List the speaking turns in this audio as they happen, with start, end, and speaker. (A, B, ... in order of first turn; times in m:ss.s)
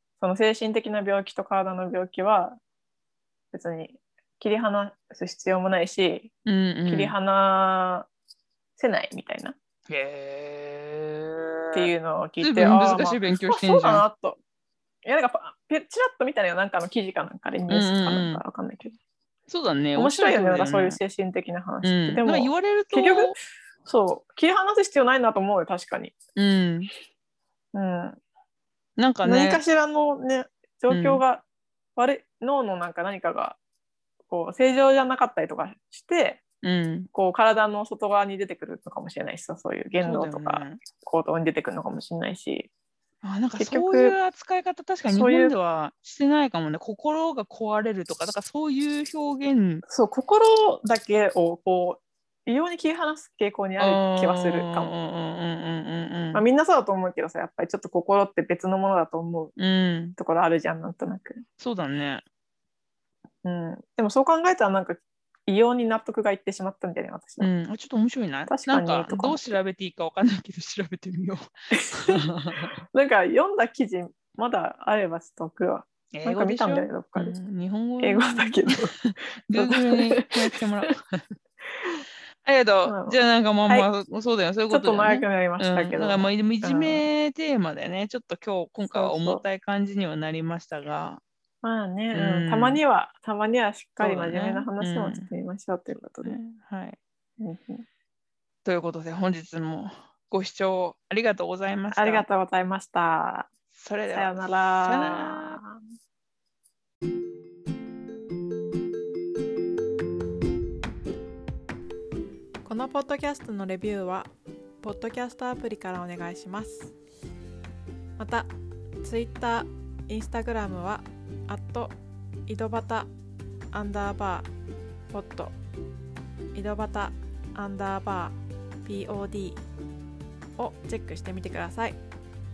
0:00.2-0:02.6 A
0:03.5-0:06.3 A
0:06.5-0:07.2 B
0:06.9-0:08.1 A
0:08.8-0:09.6 A
0:09.9-0:14.0 B
0:11.7-0:14.4 A
0:15.0-0:19.0 A
0:17.7-0:18.4 B
0:19.5-0:21.0 B
0:20.0-0:26.2 A
0:21.8-0:23.4 B
0:26.4-0:26.9 B
0:27.7-0:28.2 A
0:29.0-0:29.6 B
0:29.2-0:31.4 A
0:30.9-0:31.2 B
0:32.0-0:33.6 A
0:34.3-0:36.4 A
0:36.6-0:37.1 B
0:37.1-0:42.7 A
0:40.0-0:40.8 B
0:43.2-0:49.8 B
0:43.6-0:44.2 A
0:45.1-0:45.6 A
0:49.9-0:54.9 A
0:53.8-0:56.4 B
0:56.3-0:59.5 A
0:59.6-1:00.2 B
1:00.2-1:01.4 A
1:01.6-1:02.2 B
1:03.4-1:07.5 A
1:07.4-1:12.8 B
1:08.5-1:09.4 A
1:11.7-1:12.2 A
1:12.9-1:17.4 A
1:16.1-1:21.3 B
1:18.0-1:19.0 A
1:19.5-1:20.3 A
1:22.4-1:31.2 B
1:22.8-1:23.9 A
1:24.7-1:27.1 A
1:28.9-1:29.4 A
1:31.6-1:36.4 A
1:32.1-1:32.8 B
1:34.0-1:35.3 B
1:36.0-1:37.0 B
1:37.4-1:37.8 A
1:38.6-1:42.3 B
1:41.9-1:43.5 A
1:43.7-1:45.6 B
1:44.1-1:45.8 A
1:52.6-1:54.3 C
1:54.8-1:56.9 C
1:58.2-1:58.5 C
1:59.0-2:02.0 C
2:02.5-2:03.1 C
2:03.7-2:04.5 C
2:05.1-2:05.6 C
2:06.6-2:09.6 C
2:10.6-2:12.0 C